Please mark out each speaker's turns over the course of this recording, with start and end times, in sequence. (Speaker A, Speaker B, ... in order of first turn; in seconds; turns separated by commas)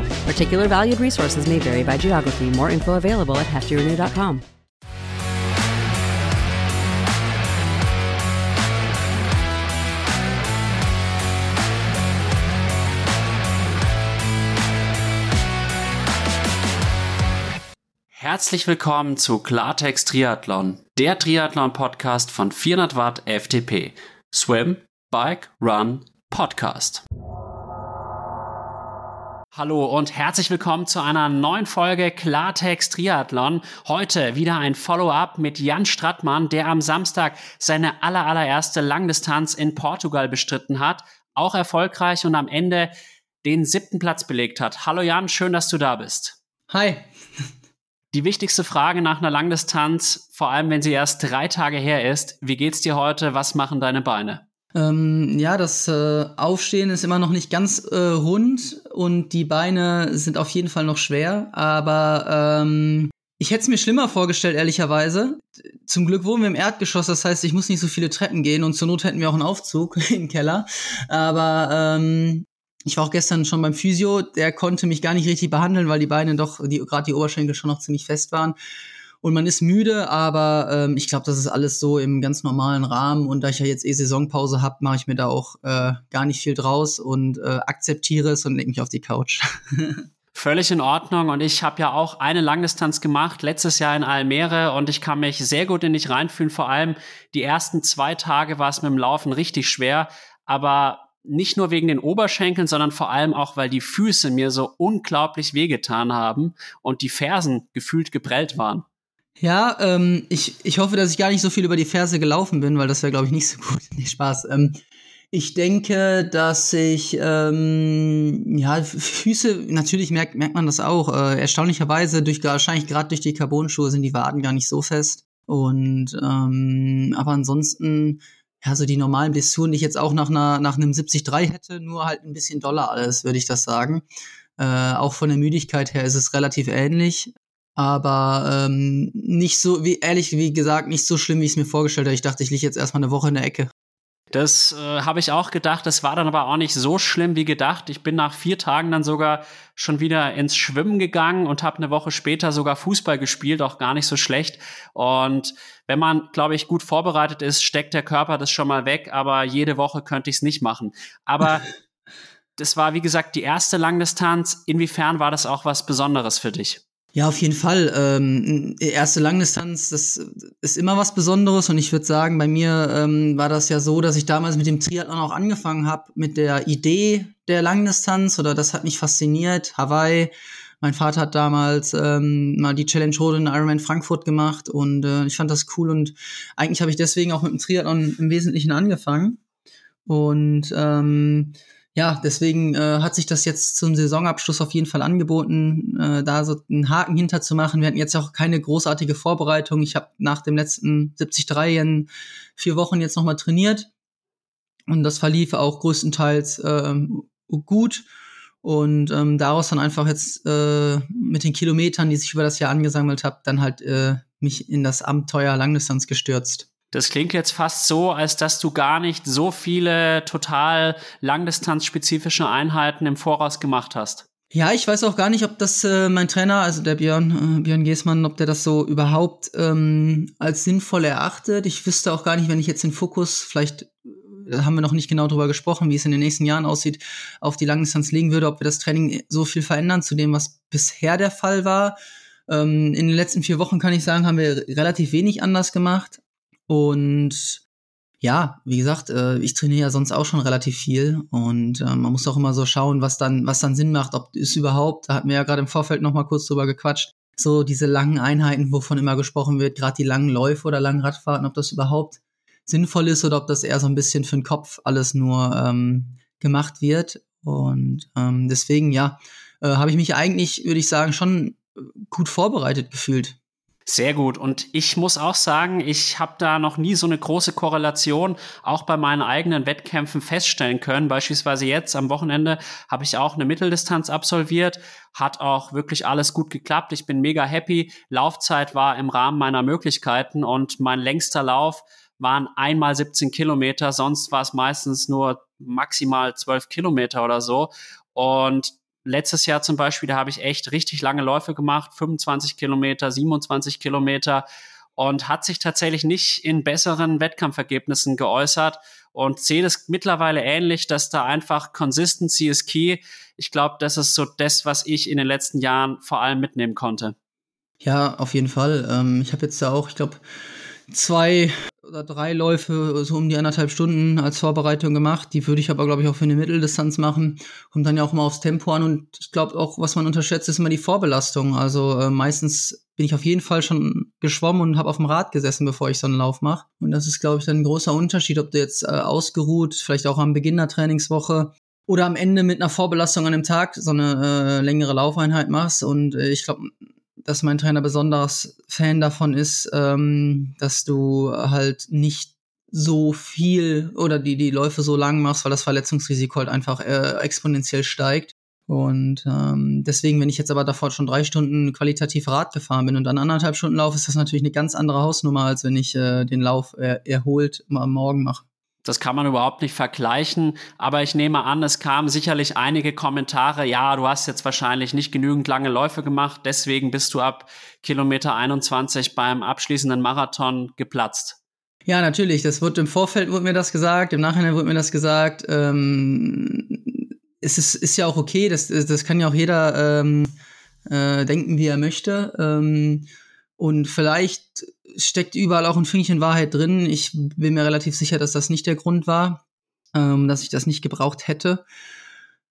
Speaker A: 0.3-4.4, Speaker B: 18.1-27.0, Speaker B: 29.5-42.9, Speaker B: 43.4-46.4, Speaker C: 46.7-47.1, Speaker B: 48.1-54.4, Speaker C: 54.8-78.6, Speaker C: 79.2-90.0, Speaker B: 90.3-108.9, Speaker C: 109.4-114.8, Speaker C: 115.3-134.1, Speaker C: 134.6-143.7, Speaker B: 144.3-161.7, Speaker B: 162.6-166.8, Speaker C: 167.2-189.4, Speaker C: 190.1-203.9, Speaker C: 204.9-208.1, Speaker C: 208.6-216.7, Speaker B: 216.9-224.2, Speaker C: 224.5-242.0, Speaker C: 242.5-247.6, Speaker C: 248.2-273.4, Speaker B: 273.9-304.4, Speaker B: 305.0-317.1, Speaker C: 317.8-320.2, Speaker C: 320.9-368.4, Speaker B: 368.9-381.4, Speaker C: 381.9-390.3, Speaker C: 390.9-399.4, Speaker C: 399.9-401.6